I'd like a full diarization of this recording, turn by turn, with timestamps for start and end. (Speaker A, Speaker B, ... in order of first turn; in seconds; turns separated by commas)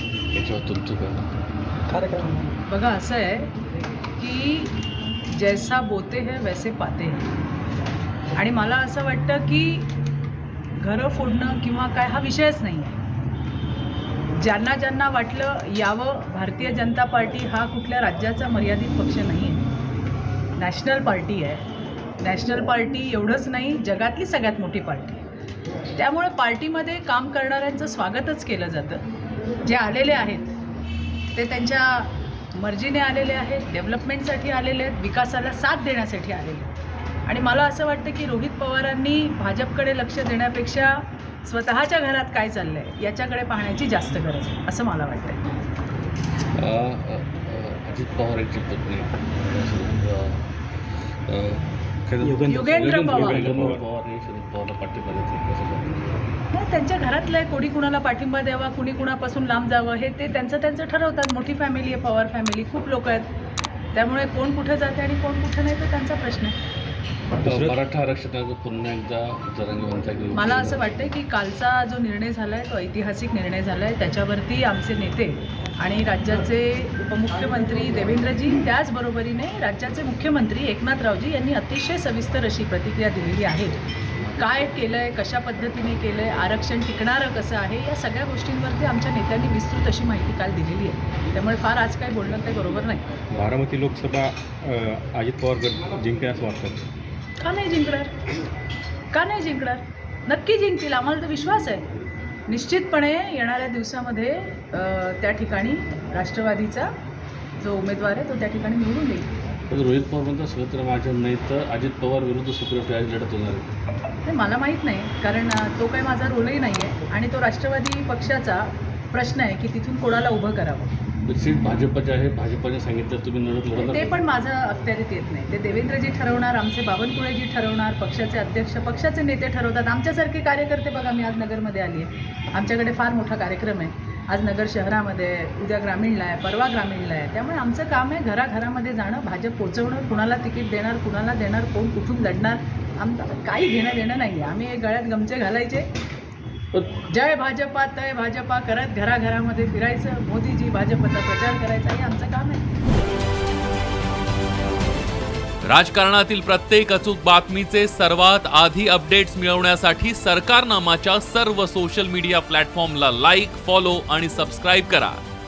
Speaker A: 0.3-1.4, Speaker B: 2.7-3.5, Speaker B: 4.2-4.8, Speaker B: 5.3-7.3, Speaker B: 8.3-9.9, Speaker B: 10.8-13.0, Speaker B: 14.4-19.6, Speaker B: 20.6-21.6, Speaker B: 22.2-25.2, Speaker B: 25.9-29.0, Speaker B: 29.6-30.5, Speaker B: 31.4-36.7, Speaker B: 37.3-45.4, Speaker A: 46.5-50.5, Speaker A: 51.2-56.3, Speaker C: 52.2-53.8, Speaker B: 52.5-53.5, Speaker B: 56.5-63.3, Speaker B: 63.9-66.5, Speaker C: 67.4-67.8, Speaker A: 67.4-71.1, Speaker B: 70.3-83.8, Speaker B: 84.4-93.0, Speaker C: 93.3-96.9, Speaker B: 97.4-98.1, Speaker B: 99.1-101.8, Speaker B: 102.5-106.9, Speaker B: 107.6-109.3, Speaker A: 109.7-113.7, Speaker B: 114.2-120.9, Speaker A: 121.2-124.2, Speaker B: 123.8-145.9, Speaker A: 146.7-147.0, Speaker B: 147.1-152.7, Speaker D: 155.6-165.2